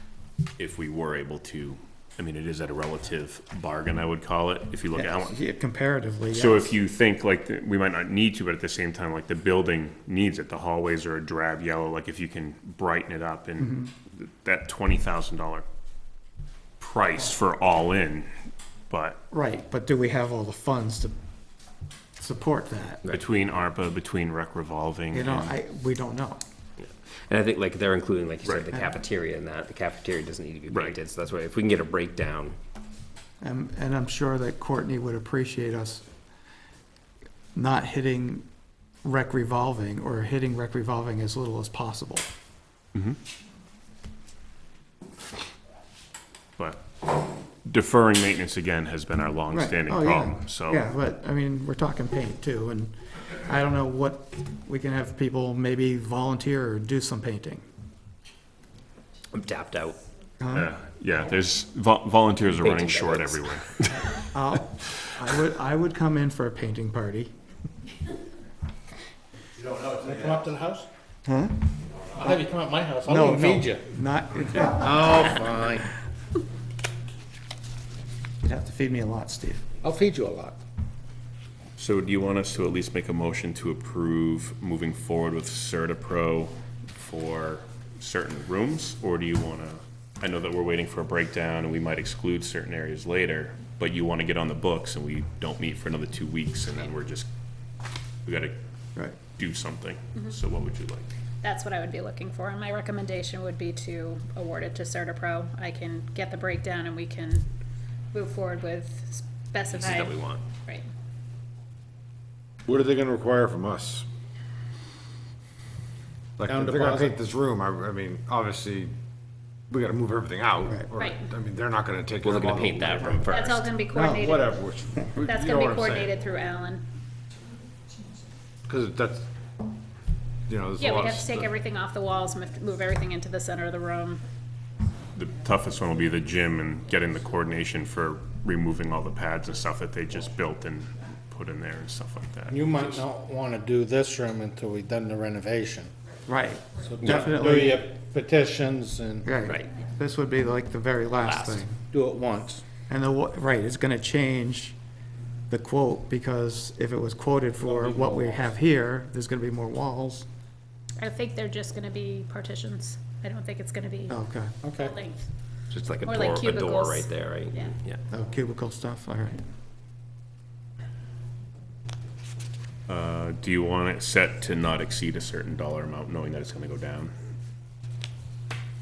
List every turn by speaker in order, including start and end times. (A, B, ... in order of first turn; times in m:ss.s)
0:00.6-0:05.4 A
0:04.9-0:06.7 B
0:06.3-0:15.6 A
0:13.6-0:13.9 B
0:16.8-0:18.3 A
0:18.9-0:19.2 A
0:19.3-0:21.1 B
0:22.2-0:23.0 B
0:23.1-0:25.6 A
0:25.1-0:26.4 B
0:26.8-0:32.6 C
0:28.4-0:28.7 A
0:30.7-0:31.0 A
0:33.4-0:36.0 B
0:37.5-0:38.4 B
0:39.0-0:42.3 B
0:46.6-0:47.1 A
0:47.6-0:50.8 A
0:49.5-0:57.6 B
0:59.3-1:00.0 C
1:00.4-1:00.7 B
1:00.5-1:04.3 A
1:02.5-1:03.6 C
1:04.1-1:07.3 B
1:04.8-1:05.1 A
1:09.9-1:10.9 D
1:11.2-1:11.7 B
1:12.1-1:13.9 D
1:12.2-1:12.5 B
1:13.0-1:15.1 B
1:14.6-1:15.9 D
1:18.4-1:19.6 B
1:19.8-1:20.6 D
1:21.8-1:37.3 A
1:38.2-1:38.6 A
1:39.2-1:41.1 A
1:41.4-1:47.5 E
1:48.1-1:50.8 E
1:49.7-1:50.4 C
1:52.6-1:54.0 F
1:56.4-1:58.9 F
1:56.4-1:57.2 D
1:59.7-2:06.1 F
2:01.0-2:01.2 E
2:02.2-2:03.7 C
2:03.3-2:04.6 E
2:03.9-2:04.3 B
2:05.2-2:06.8 E
2:08.7-2:09.2 F
2:10.5-2:11.5 F
2:10.8-2:14.2 E
2:15.1-2:23.0 A
2:22.5-2:25.9 D
2:26.2-2:27.8 B
2:26.8-2:29.3 D
2:29.2-2:31.8 B
2:29.4-2:29.7 C
2:31.2-2:31.6 C
2:31.9-2:32.6 D
2:32.8-2:34.8 B
2:35.5-2:40.2 B
2:37.6-2:38.4 D
2:41.0-2:44.2 E
2:44.1-2:44.6 B
2:44.6-2:44.9 D
2:44.8-2:45.3 E
2:45.7-2:48.0 C
2:46.0-2:47.7 E
2:48.1-2:49.4 B
2:52.9-2:57.1 A